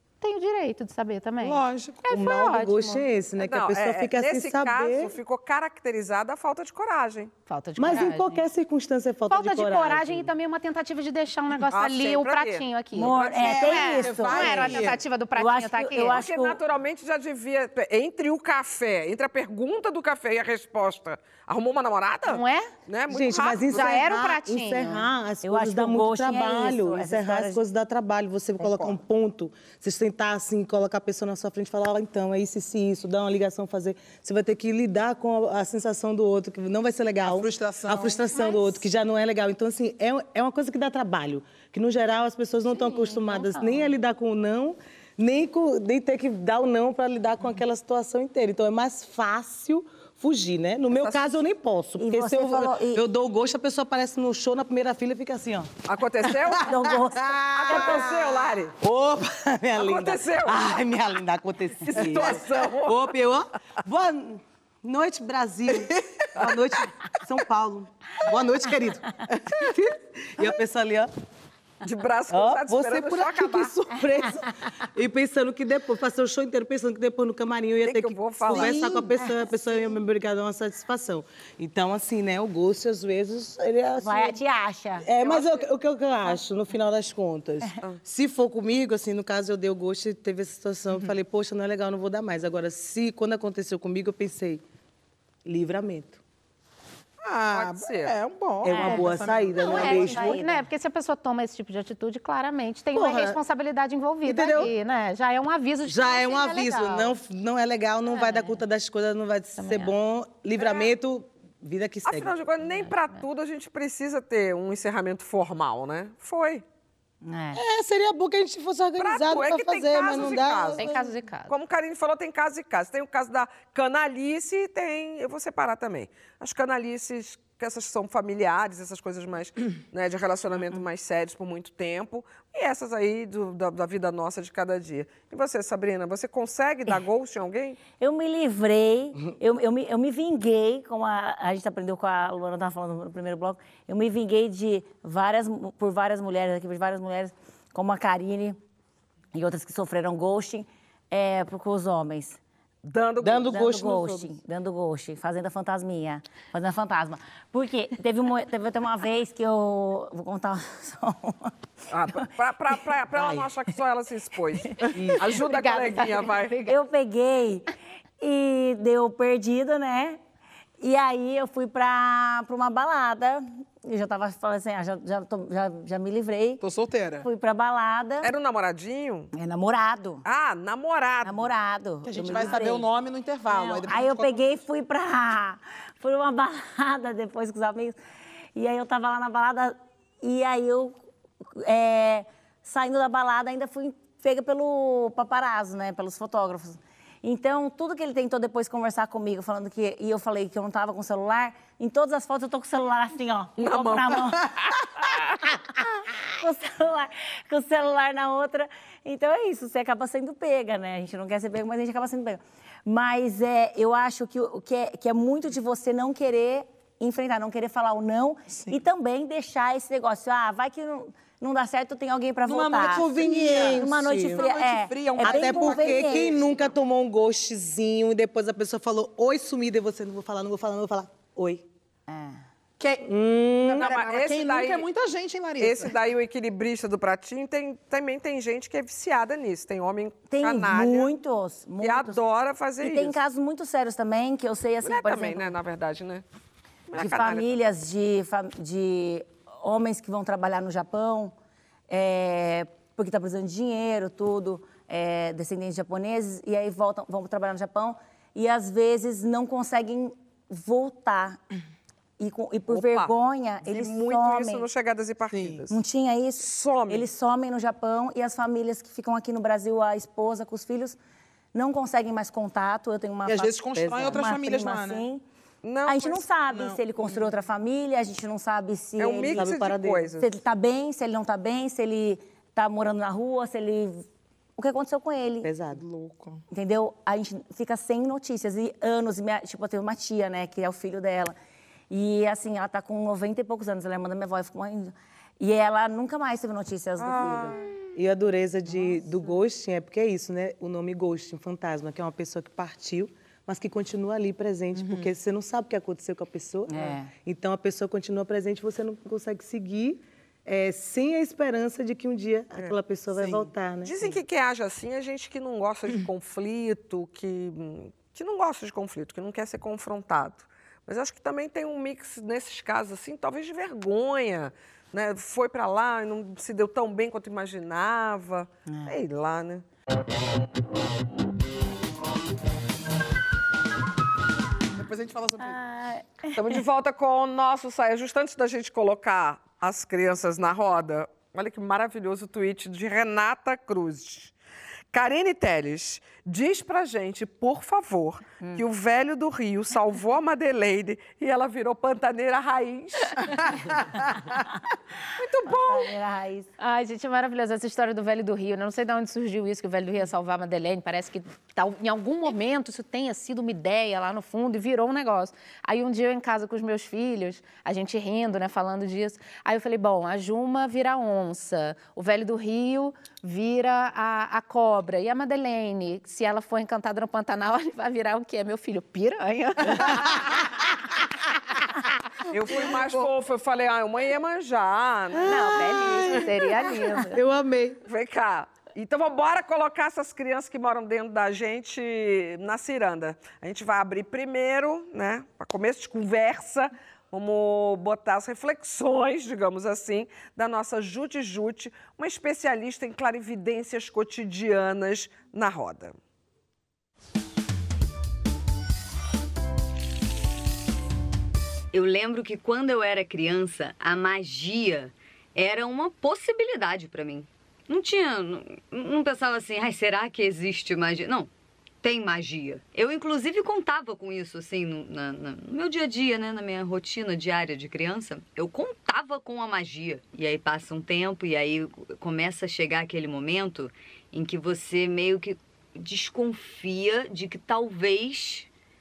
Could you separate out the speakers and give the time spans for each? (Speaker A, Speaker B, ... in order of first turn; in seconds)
Speaker A: 0.2-3.0, 7.5-8.4, 9.3-16.2, 22.3-22.7, 23.7-25.1, 38.4-38.7, 99.6-107.2, 109.6-109.9, 120.8-121.5, 165.3-166.8, 356.6-380.2, 385.3-387.2
Speaker B: 1.4-2.0, 13.4-15.0, 37.2-38.2, 56.5-56.8, 57.4-58.3, 65.9-66.5, 69.3-69.6, 97.2-100.4, 176.6-177.3, 182.1-184.6, 218.5-218.8, 222.5-226.7, 232.8-233.1, 233.6-235.9, 265.3-265.6, 273.3-275.1, 276.5-277.3, 285.7-286.4, 304.8-305.1, 334.8-335.6
Speaker C: 2.1-5.2, 7.8-10.3, 23.1-55.7, 58.8-71.1, 72.3-84.4, 85.0-94.6, 95.5-96.2, 98.6-100.4, 102.9-103.4, 104.2-104.7, 105.8-112.3, 117.5-121.0, 153.2-154.3, 163.2-163.5, 164.9-165.2, 222.8-224.4, 225.2-231.7, 233.0-233.9, 279.3-280.1, 285.4-285.8, 297.9-314.1, 385.1-387.8
Speaker D: 3.4-7.3, 11.7-14.2, 16.1-23.9, 28.6-29.0, 55.9-56.7, 57.5-58.7, 59.8-60.6, 61.9-63.1, 71.8-73.8, 77.8-79.0, 85.2-85.5, 97.5-98.1, 112.0-116.6, 119.0-121.0, 121.5-137.8, 152.8-153.6, 161.9-166.6, 178.2-179.3, 180.2-181.5, 203.6-205.5, 233.8-234.9, 235.6-241.1, 241.8-243.2, 244.8-246.2, 246.9-247.5, 262.7-265.8, 266.4-267.1, 275.6-276.2, 279.0-280.2, 297.0-297.6, 312.6-329.6, 336.3-344.3, 344.9-353.5, 355.2-355.9, 382.3-385.3, 387.9-406.0
Speaker E: 12.9-16.6, 25.4-27.6, 42.9-43.9, 52.0-53.0, 56.6-58.1, 78.6-79.3, 84.0-85.1, 98.7-99.1, 99.7-100.7, 108.2-108.6, 117.2-117.6, 137.9-148.6, 149.3-152.4, 153.4-161.5, 166.7-167.7, 168.2-170.2, 170.8-176.6, 177.2-178.3, 179.3-180.2, 181.2-182.9, 183.5-188.0, 188.6-191.0, 191.5-204.4, 206.4-226.3, 232.1-232.4, 240.3-242.2, 242.8-245.5, 246.9-251.3, 251.9-261.4, 262.2-264.6, 265.7-271.0, 271.5-275.2, 275.9-279.5, 280.2-284.0, 284.6-285.5, 286.5-291.4, 291.9-297.6, 306.7-307.1, 328.7-328.9, 335.4-336.6, 355.5-356.5
Speaker F: 411.7-421.3, 421.8-438.5